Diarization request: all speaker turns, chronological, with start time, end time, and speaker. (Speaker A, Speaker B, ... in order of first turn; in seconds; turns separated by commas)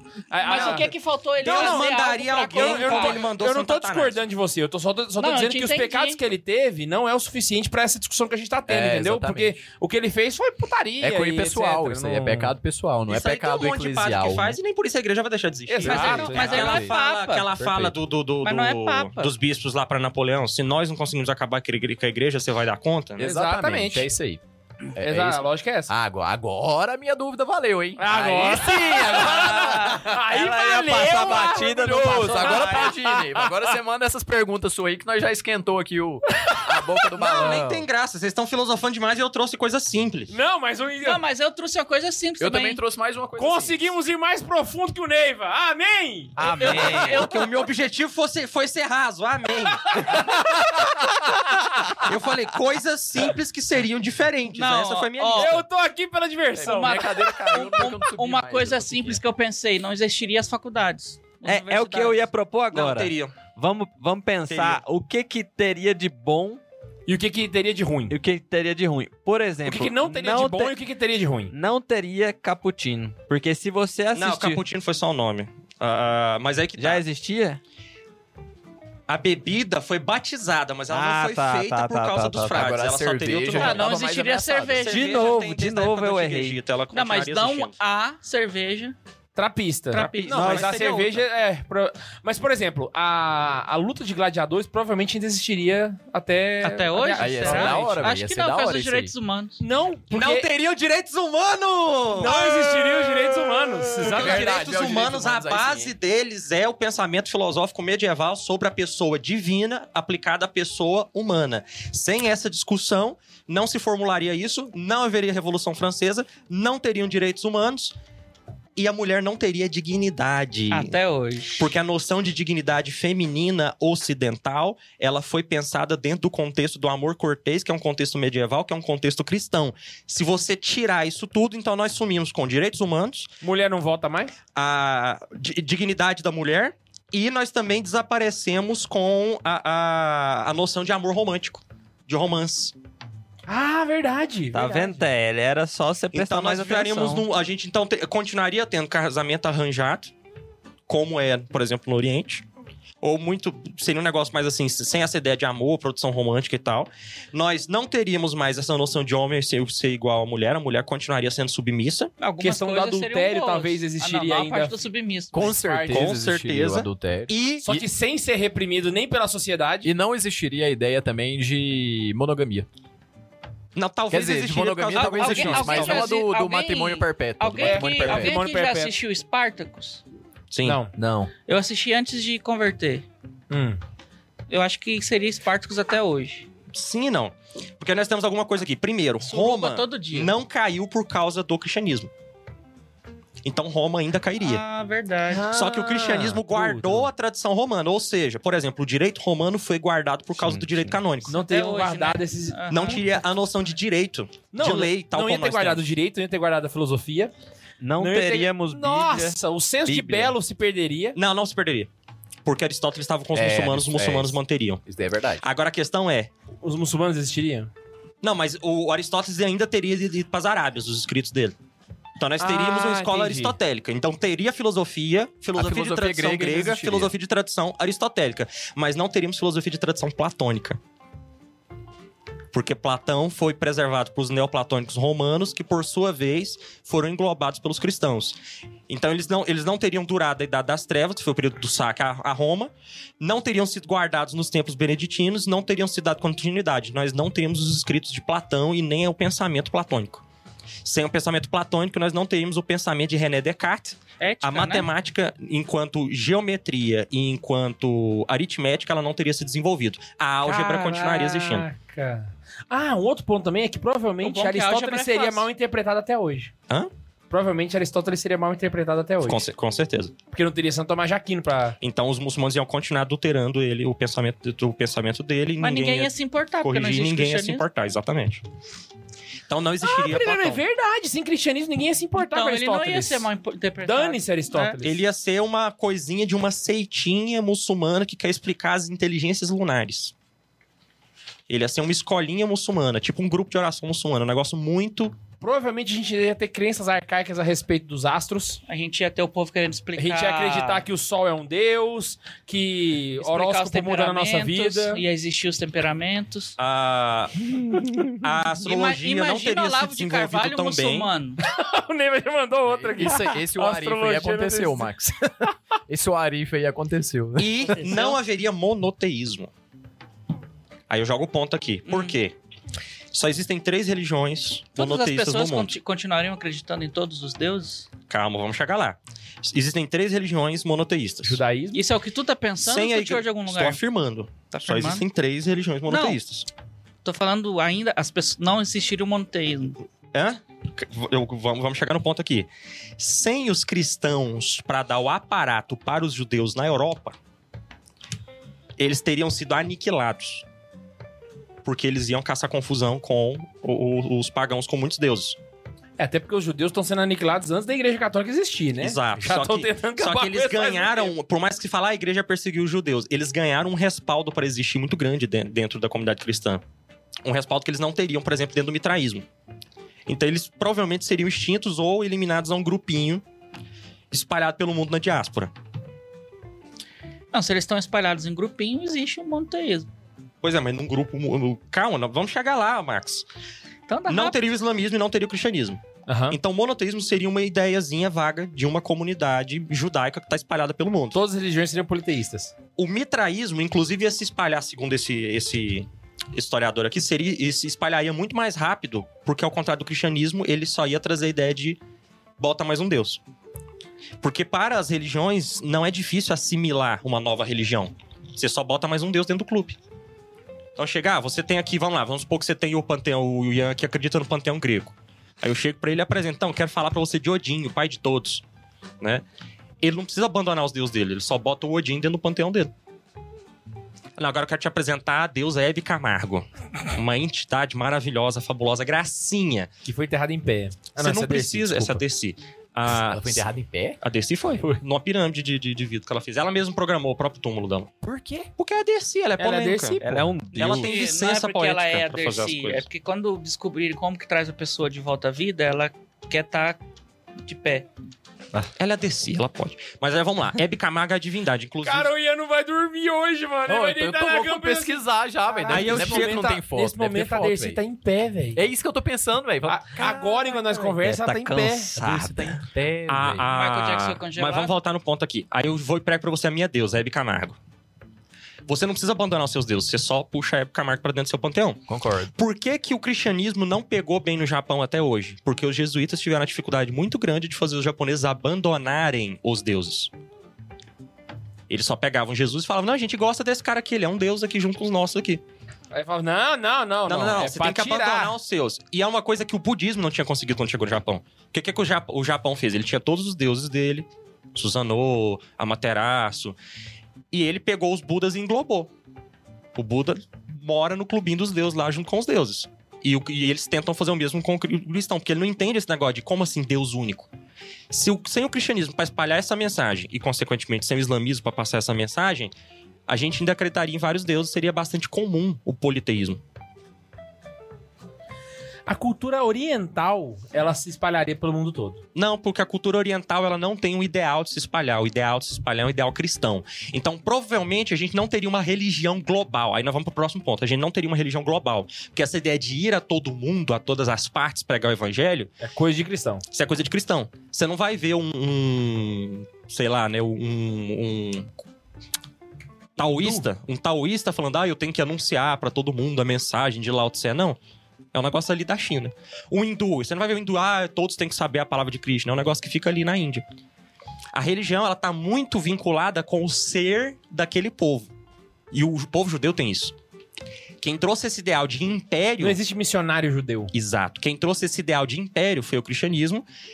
Speaker A: 0.3-1.8, Speaker B: 0.3-3.2, Speaker C: 0.5-0.9, Speaker C: 1.4-4.2, Speaker A: 2.5-12.6, Speaker B: 5.2-6.2, Speaker D: 8.7-9.6, Speaker D: 11.0-14.6, Speaker C: 13.1-23.3, Speaker A: 15.7-16.9, Speaker B: 15.8-17.5, Speaker D: 16.4-16.9, Speaker D: 17.6-17.9, Speaker B: 18.4-19.3, Speaker D: 23.2-24.4, Speaker A: 23.2-24.1, Speaker D: 25.0-30.2, Speaker A: 25.0-25.9, Speaker A: 28.0-33.8, Speaker B: 29.5-30.1, Speaker E: 30.3-32.9, Speaker D: 31.4-37.9, Speaker A: 36.4-36.8, Speaker C: 37.2-40.4, Speaker A: 40.3-41.2, Speaker B: 41.0-42.8, Speaker D: 42.4-43.9, Speaker A: 43.4-47.0, Speaker B: 46.4-47.4, Speaker C: 46.6-50.5, Speaker C: 52.0-55.6, Speaker B: 54.5-55.6, Speaker A: 55.3-57.4, Speaker D: 56.6-59.2, Speaker B: 56.6-62.3, Speaker E: 61.4-66.6, Speaker C: 62.7-63.4, Speaker C: 64.5-64.8, Speaker A: 67.1-68.2, Speaker E: 68.1-70.8, Speaker A: 69.6-71.5, Speaker E: 71.5-74.6, Speaker C: 74.1-77.0, Speaker E: 76.8-77.6, Speaker C: 79.1-83.9, Speaker E: 80.9-82.7, Speaker D: 82.5-84.9, Speaker B: 83.5-85.0, Speaker C: 84.8-87.8, Speaker E: 84.9-86.6, Speaker B: 86.9-89.0, Speaker A: 89.3-98.0, Speaker B: 89.9-90.6, Speaker C: 89.9-91.2, Speaker E: 90.3-91.0, Speaker B: 96.6-99.6, Speaker D: 97.2-99.1, Speaker A: 99.6-100.5, Speaker C: 100.1-118.0, Speaker A: 102.1-104.6, Speaker D: 104.0-105.9, Speaker C: 118.8-121.0, Speaker B: 120.7-121.7, Speaker C: 121.6-133.3, Speaker A: 133.4-134.3, Speaker C: 134.6-142.8, Speaker A: 143.5-145.1, Speaker E: 144.5-147.3, Speaker C: 146.1-150.1, Speaker C: 150.9-152.4, Speaker C: 153.0-162.1, Speaker B: 162.2-165.7, Speaker A: 162.4-164.8, Speaker D: 165.3-167.8, Speaker A: 165.3-166.1, Speaker C: 165.9-167.7, Speaker A: 167.6-169.9, Speaker D: 169.8-172.7, Speaker C: 173.8-176.1, Speaker D: 174.1-178.4, Speaker B: 174.9-180.0, Speaker A: 177.6-178.9, Speaker C: 180.5-180.8, Speaker A: 180.6-180.9, Speaker D: 180.9-181.3, Speaker B: 181.5-183.1, Speaker A: 183.5-183.8, Speaker B: 184.5-186.5, Speaker C: 186.7-192.1, Speaker B: 189.2-190.3, Speaker C: 193.4-194.6, Speaker B: 194.4-195.5, Speaker A: 195.3-197.1, Speaker C: 195.5-201.4, Speaker D: 200.4-200.9, Speaker A: 201.3-203.0, Speaker B: 201.3-203.0, Speaker C: 202.7-205.8, Speaker A: 204.5-207.3, Speaker E: 207.8-210.3, Speaker A: 208.0-211.2, Speaker C: 211.2-211.9, Speaker C: 212.4-214.8, Speaker D: 213.3-215.5, Speaker C: 215.4-216.3, Speaker A: 216.6-217.7, Speaker C: 218.2-221.6, Speaker C: 222.2-230.8, Speaker A: 222.4-223.6, Speaker D: 225.6-227.1, Speaker C: 232.5-238.4, Speaker C: 238.9-250.2, Speaker C: 250.8-261.7, Speaker B: 254.2-254.9, Speaker A: 260.4-266.5, Speaker B: 264.2-265.5, Speaker A: 267.3-269.4, Speaker C: 269.2-270.1, Speaker A: 270.3-271.8, Speaker C: 271.8-278.4, Speaker B: 275.6-277.6, Speaker C: 279.5-280.6, Speaker A: 279.8-283.3, Speaker B: 282.1-284.8, Speaker A: 283.8-285.0, Speaker C: 284.8-290.1, Speaker C: 291.5-295.2, Speaker A: 295.4-298.6, Speaker B: 298.7-300.8, Speaker A: 300.0-305.0, Speaker B: 303.2-306.6, Speaker C: 306.6-307.6, Speaker C: 308.1-311.1, Speaker B: 308.6-311.4, Speaker A: 311.4-314.9, Speaker D: 312.7-317.9, Speaker C: 317.4-319.5, Speaker B: 317.6-318.2, Speaker C: 320.9-322.4, Speaker B: 321.9-322.2, Speaker C: 323.1-325.8, Speaker B: 324.8-327.9, Speaker C: 328.1-331.4, Speaker A: 331.2-331.8, Speaker B: 331.7-333.8, Speaker C: 332.6-336.5, Speaker B: 334.6-335.1, Speaker B: 335.9-336.2, Speaker B: 337.1-339.8, Speaker C: 340.1-347.2, Speaker C: 348.8-350.4, Speaker C: 351.6-355.4, Speaker A: 356.0-361.1, Speaker C: 358.8-366.6, Speaker C: 367.2-369.3, Speaker C: 370.1-373.2, Speaker C: 374.1-375.5, Speaker B: 377.3-379.9, Speaker C: 380.4-383.3, Speaker B: 383.9-384.4, Speaker C: 384.1-391.2, Speaker A: 386.1-386.4, Speaker A: 391.1-392.5, Speaker C: 392.8-401.8, Speaker C: 402.4-403.2, Speaker C: 404.2-409.8, Speaker C: 410.8-418.4, Speaker C: 419.8-422.7, Speaker C: 424.2-429.7, Speaker A: 429.9-432.0, Speaker C: 431.0-433.5, Speaker D: 432.9-434.0, Speaker C: 434.0-437.9, Speaker D: 438.0-438.5, Speaker C: 438.6-442.9, Speaker A: 439.4-440.4, Speaker E: 440.0-440.9, Speaker B: 440.6-446.8, Speaker B: 447.4-447.9, Speaker C: 448.8-452.1, Speaker A: 451.8-458.6, Speaker D: 453.7-457.8, Speaker C: 455.7-456.5, Speaker D: 458.6-460.9, Speaker A: 459.7-462.0, Speaker E: 461.0-462.6, Speaker D: 461.9-463.5, Speaker C: 463.1-467.6, Speaker B: 463.5-464.7, Speaker C: 468.7-471.8, Speaker D: 471.9-472.3, Speaker C: 472.4-480.1, Speaker C: 481.7-485.4, Speaker A: 485.9-488.4, Speaker C: 487.1-496.6, Speaker C: 497.3-498.9, Speaker C: 499.8-507.3, Speaker C: 507.9-512.5, Speaker C: 513.1-516.4, Speaker A: 518.9-522.0, Speaker C: 522.1-535.5, Speaker A: 535.6-536.4, Speaker C: 536.5-541.5, Speaker C: 543.0-547.6, Speaker A: 543.2-543.4, Speaker C: 548.1-553.4, Speaker C: 554.3-558.1, Speaker C: 558.7-560.0, Speaker C: 560.8-562.6, Speaker A: 562.4-563.7, Speaker C: 563.7-566.5